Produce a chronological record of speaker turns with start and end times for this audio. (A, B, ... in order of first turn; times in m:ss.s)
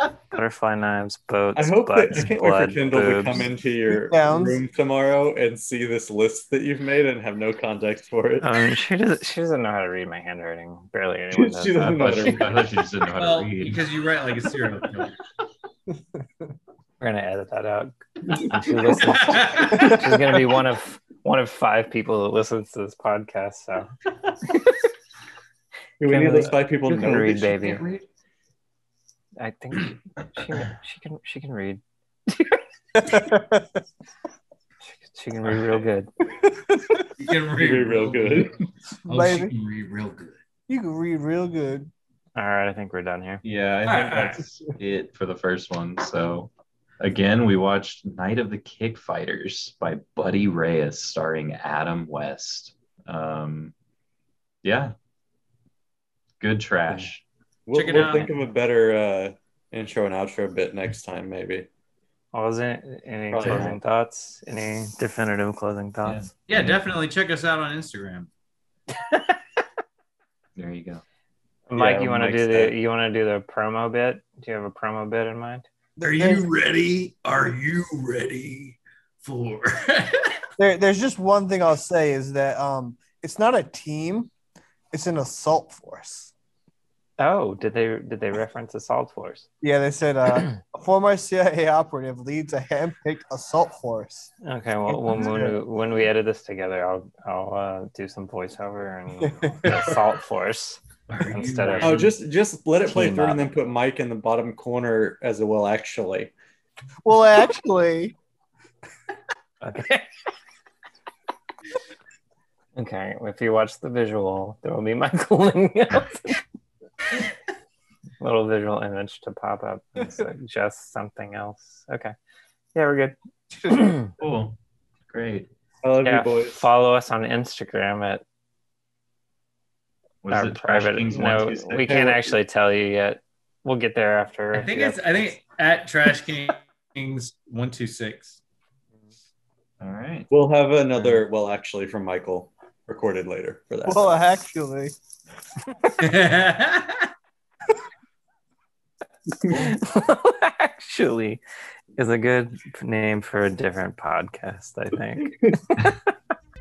0:00.3-0:03.5 A
0:01.5-0:08.5 B
0:03.9-0:04.6 C
0:08.4-0:12.6 A
0:11.3-0:12.6 B
0:11.8-0:13.9 D
0:13.2-0:15.2 E
0:17.0-0:23.9 A
0:19.0-0:20.0 E
0:19.7-0:20.2 C
0:26.0-0:27.8 B
0:26.0-0:27.9 A
0:29.4-0:32.6 A
0:33.0-0:33.6 C
0:34.8-0:36.1 A
0:35.5-0:35.8 E
0:36.5-0:37.1 C
0:37.2-0:40.4 E
0:37.6-0:38.5 B
0:39.1-0:39.5 C
0:40.7-0:41.9 C
0:42.4-0:43.4 A
0:43.4-0:53.7 D
0:43.9-0:44.4 E
0:54.6-0:54.9 D
0:56.4-0:57.2 D
0:57.7-1:01.7 B
0:57.7-0:58.3 E
1:02.3-1:06.3 A
1:03.3-1:03.8 B
1:03.4-1:03.7 D
1:06.0-1:06.7 D
1:06.5-1:08.3 E
1:08.9-1:09.4 A
1:10.6-1:11.0 D
1:11.7-1:15.7 A
1:11.8-1:12.7 B
1:16.0-1:16.5 C
1:16.0-1:20.4 E
1:20.6-1:24.3 C
1:24.9-1:26.3 C
1:27.2-1:29.5 A
1:29.6-1:34.3 C
1:34.4-1:42.2 A
1:35.0-1:35.6 C
1:39.4-1:40.0 C
1:41.1-1:42.0 E
1:41.8-1:46.3 B
1:42.9-1:43.6 A
1:47.0-1:48.2 C
1:49.6-1:50.1 A
1:52.8-1:56.4 A
1:58.2-2:02.2 A
2:02.8-2:03.2 A
2:03.7-2:04.1 A
2:04.2-2:04.6 D
2:05.1-2:05.5 D
2:05.8-2:06.7 B
2:06.0-2:08.2 A
2:10.2-2:12.0 D
2:10.3-2:15.3 A
2:11.8-2:12.4 B
2:14.5-2:18.4 E
2:19.8-2:20.3 D
2:20.3-2:24.2 B
2:23.9-2:25.0 C
2:26.0-2:27.1 E
2:29.4-2:29.7 B
2:29.4-2:31.4 A
2:32.0-2:36.0 A